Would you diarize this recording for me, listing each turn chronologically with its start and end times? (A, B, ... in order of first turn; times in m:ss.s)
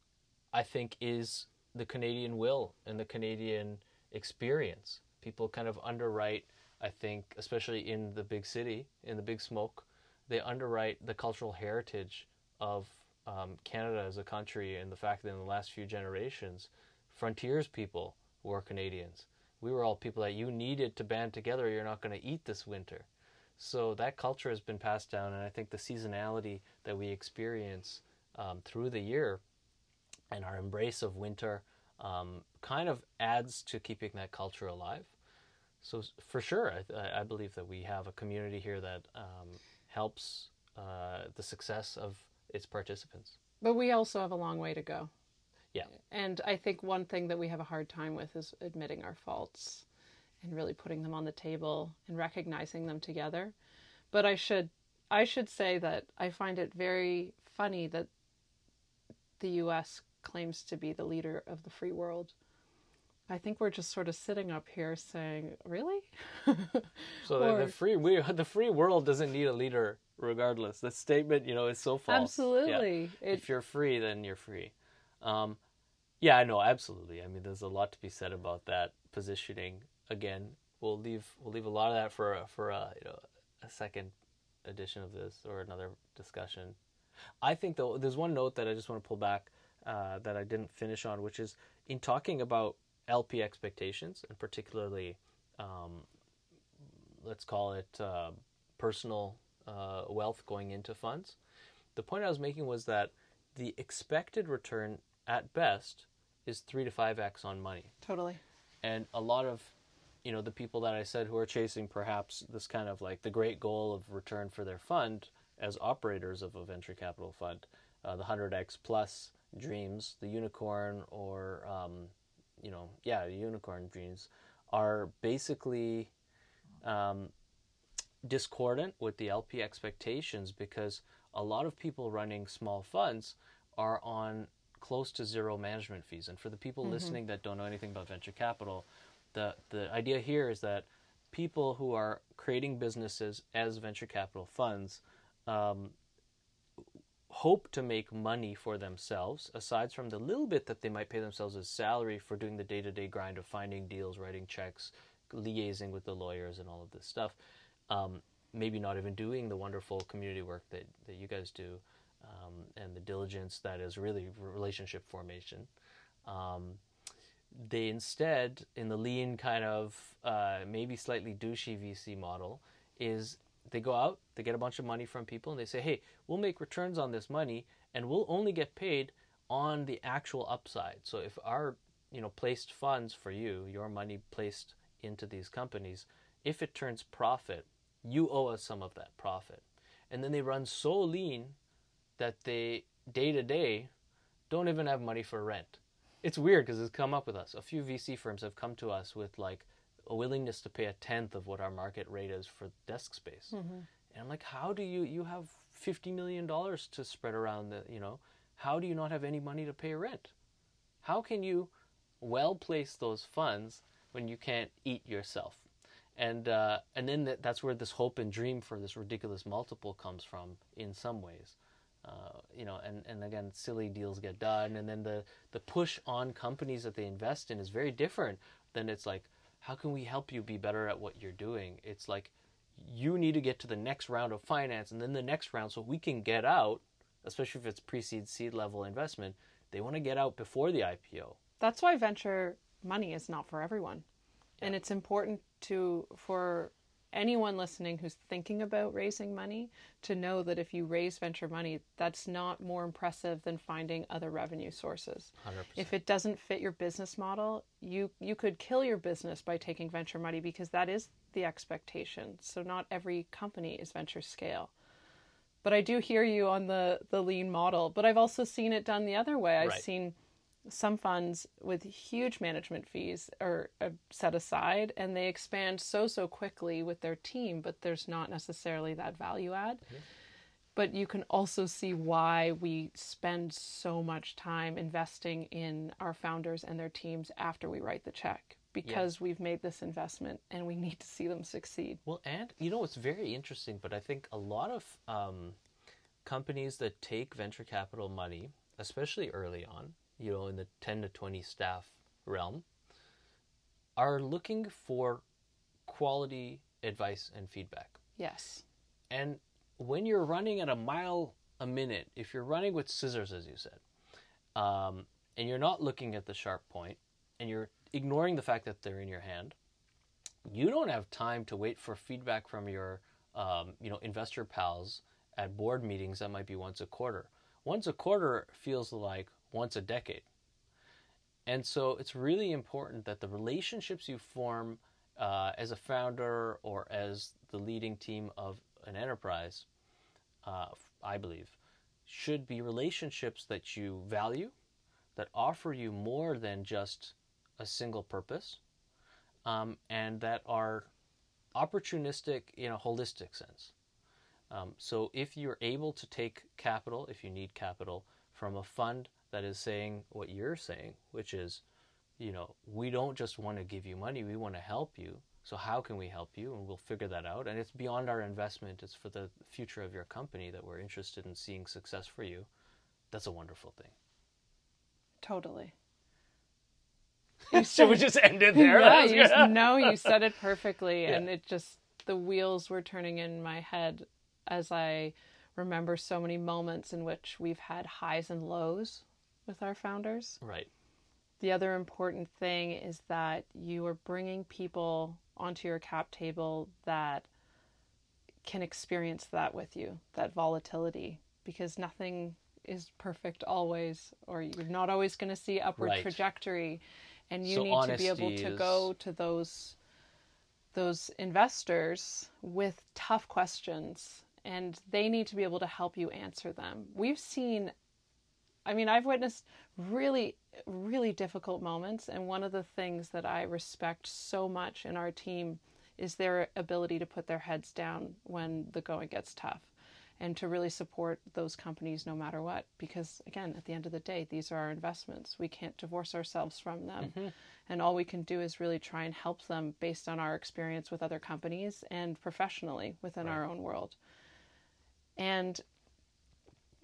0:00.5-0:29.4 A
0:30.3-0:35.1 A
0:35.8-0:43.4 A
0:43.6-0:45.1 B
0:45.9-0:49.8 B
0:50.4-0:53.5 B
0:54.1-0:58.1 B
0:59.4-1:02.3 B
1:03.3-1:07.7 B
1:07.2-1:15.6 A
1:12.1-1:13.4 B
1:16.2-1:26.8 A
1:27.4-1:36.1 A
1:37.2-1:41.4 A
1:41.9-1:47.9 A
1:48.0-1:48.4 B
1:48.8-1:49.7 A
1:50.2-2:06.1 A
2:06.8-2:07.3 A
2:08.2-2:25.9 A
2:16.8-2:17.2 B
2:26.8-2:37.4 A
2:37.9-2:45.7 A
2:46.2-2:46.8 A
2:47.5-3:11.6 A
3:12.2-3:13.9 A
3:14.5-3:23.5 A
3:23.5-3:23.8 B
3:24.1-3:30.3 A
3:31.0-4:01.4 A
4:01.6-4:04.0 B
4:04.6-4:24.7 B
4:15.4-4:15.9 A
4:25.6-4:30.1 B
4:30.7-4:39.8 B
4:40.8-4:52.0 B
4:52.0-4:55.6 A
4:56.2-5:02.6 A
5:04.0-5:05.2 A
5:05.8-5:08.0 A
5:08.2-5:08.6 B
5:09.1-5:13.8 A
5:14.5-5:19.6 A
5:20.4-5:30.3 A
5:31.4-5:39.6 A
5:40.4-5:44.5 A
5:45.2-5:48.6 A
5:49.4-5:50.9 A
5:51.5-5:53.7 A
5:54.5-6:01.6 A
6:02.2-6:12.5 A
6:13.1-6:13.9 A
6:15.2-6:15.7 B
6:17.5-6:20.1 A
6:17.5-6:30.4 B
6:30.4-6:30.7 A
6:31.4-6:37.3 B
6:38.4-6:49.8 B
6:45.8-6:46.2 A
6:47.4-6:48.9 A
6:50.7-6:57.7 B
6:58.6-7:24.0 B
7:17.0-7:17.3 A
7:25.2-7:25.6 B